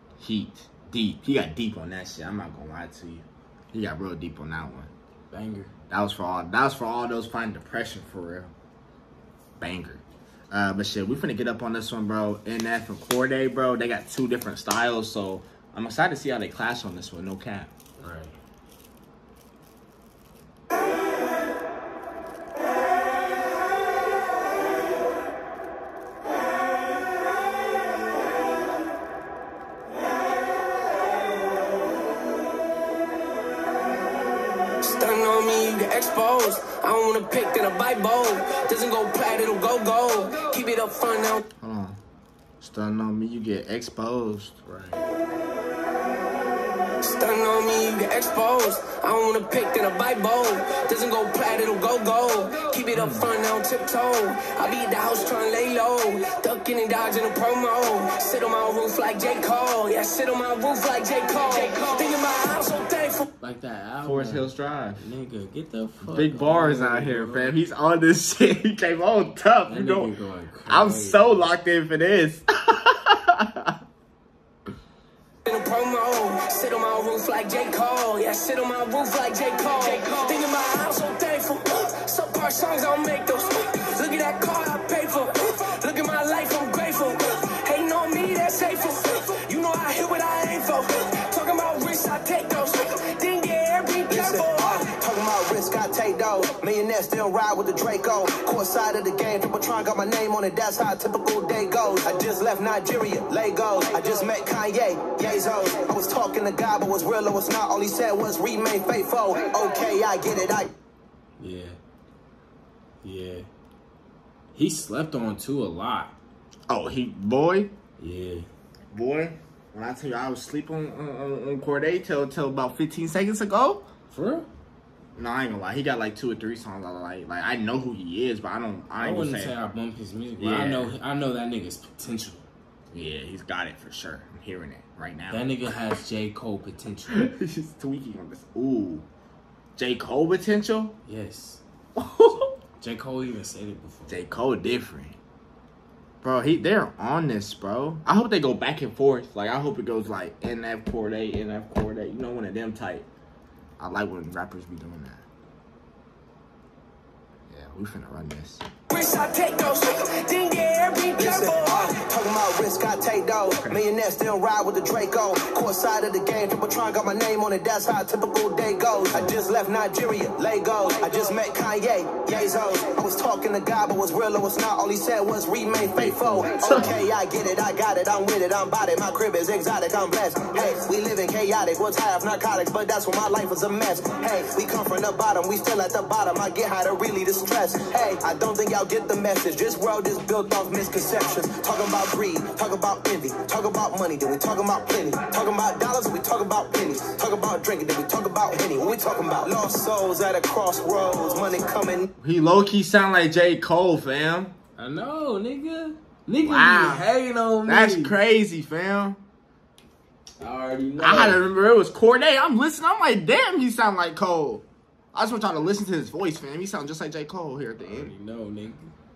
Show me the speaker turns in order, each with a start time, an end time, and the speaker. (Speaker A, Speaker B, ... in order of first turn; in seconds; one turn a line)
Speaker A: 0.2-4.9
Speaker B: 5.3-5.7
Speaker A: 5.9-8.5
Speaker A: 9.6-17.7
Speaker B: 18.0-18.4
Speaker C: 34.8-41.5
Speaker A: 41.6-42.0
Speaker A: 42.6-44.6
Speaker B: 44.7-45.1
Speaker C: 47.0-63.3
Speaker A: 52.9-53.3
Speaker B: 63.4-67.6
Speaker A: 64.0-65.1
Speaker A: 66.0-70.1
Speaker B: 69.7-71.5
Speaker A: 70.7-73.8
Speaker C: 75.5-94.9
Speaker D: 94.1-110.7
Speaker B: 111.4-111.8
Speaker B: 113.0-113.5
Speaker B: 114.5-116.2
Speaker A: 116.7-117.7
Speaker B: 118.0-118.5
Speaker A: 118.9-123.9
Speaker B: 124.1-124.5
Speaker A: 125.2-129.6
Speaker B: 129.0-132.5
Speaker A: 130.4-130.9
Speaker A: 132.9-135.7
Speaker B: 135.3-137.3
Speaker A: 137.1-139.1
Speaker A: 139.8-141.0
Speaker B: 141.1-141.6
Speaker A: 142.0-142.5
Speaker B: 142.8-144.2
Speaker A: 144.1-145.2
Speaker A: 146.2-153.1
Speaker A: 153.8-155.3
Speaker A: 157.5-158.6
Speaker C: 158.9-162.0
Speaker D: 161.2-202.1
Speaker A: 163.5-163.8
Speaker A: 176.1-177.0
Speaker A: 202.2-204.6
Speaker B: 204.8-208.2
Speaker A: 206.4-207.1
Speaker A: 207.7-209.2
Speaker B: 210.4-211.4
Speaker A: 211.0-218.2
Speaker B: 217.8-218.9